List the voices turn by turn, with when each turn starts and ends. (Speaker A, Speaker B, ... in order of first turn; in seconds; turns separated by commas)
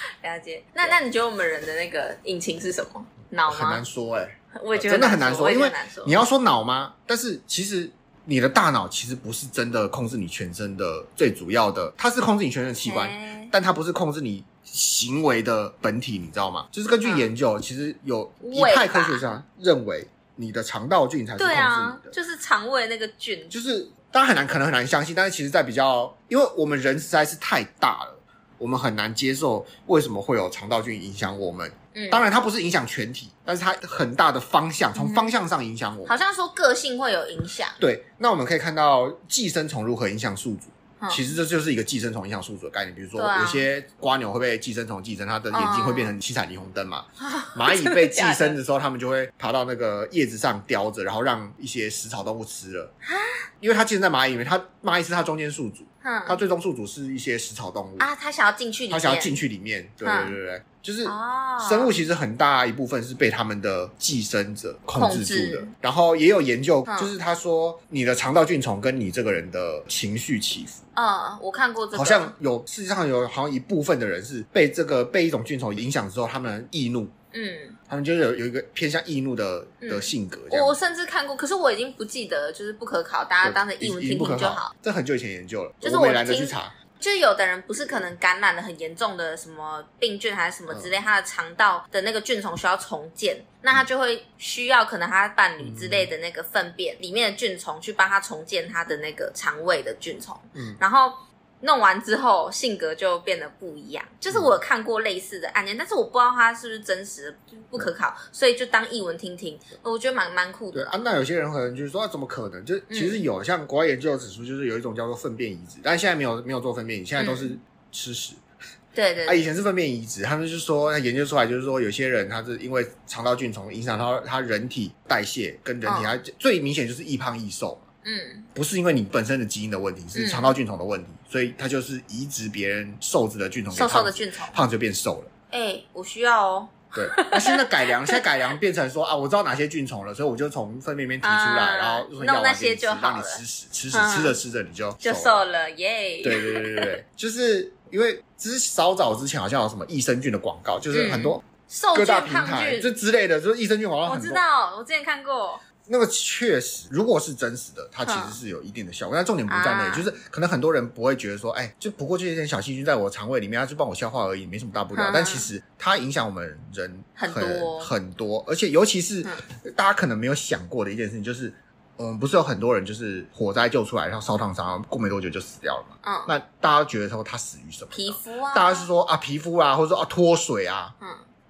Speaker A: 0.2-3.8, Speaker B: 3.5-22.1, Speaker A: 4.5-6.2, Speaker A: 12.8-13.5, Speaker A: 17.0-17.3, Speaker A: 18.4-19.4, Speaker A: 21.4-23.6, Speaker B: 23.5-36.2, Speaker A: 31.9-32.2, Speaker A: 35.0-35.3, Speaker A: 36.1-37.8, Speaker B: 37.8-52.9, Speaker A: 41.0-41.3, Speaker A: 43.2-43.7, Speaker A: 45.5-46.1, Speaker A: 47.2-48.6, Speaker A: 53.0-53.5, Speaker B: 53.6-58.1, Speaker A: 56.0-56.4, Speaker A: 58.0-59.4, Speaker B: 58.9-70.8, Speaker A: 60.0-60.4, Speaker A: 61.0-61.9, Speaker A: 65.0-65.7, Speaker A: 66.9-67.1, Speaker A: 71.0-72.3, Speaker B: 71.9-77.1, Speaker A: 77.3-77.8, Speaker B: 77.9-80.8, Speaker A: 79.8-84.7, Speaker B: 83.4-86.8, Speaker A: 85.8-110.9, Speaker B: 95.6-96.1, Speaker B: 100.5-100.8, Speaker B: 110.7-118.4, Speaker A: 112.9-113.2, Speaker A: 117.2-117.6, Speaker A: 119.0-119.5, Speaker B: 119.2-127.9, Speaker A: 125.8-126.2, Speaker A: 128.0-128.5, Speaker B: 128.6-135.3, Speaker A: 130.2-130.6, Speaker A: 133.7-134.6, Speaker A: 135.5-138.2, Speaker B: 136.9-145.4, Speaker A: 141.2-144.4, Speaker A: 145.0-147.0, Speaker B: 146.2-151.4, Speaker A: 150.9-152.9, Speaker B: 151.9-154.4, Speaker A: 154.1-155.6, Speaker B: 155.9-180.9, Speaker A: 158.1-158.4, Speaker A: 159.5-160.2, Speaker A: 164.9-165.5, Speaker A: 167.2-167.9, Speaker A: 176.0-176.3, Speaker A: 177.9-178.9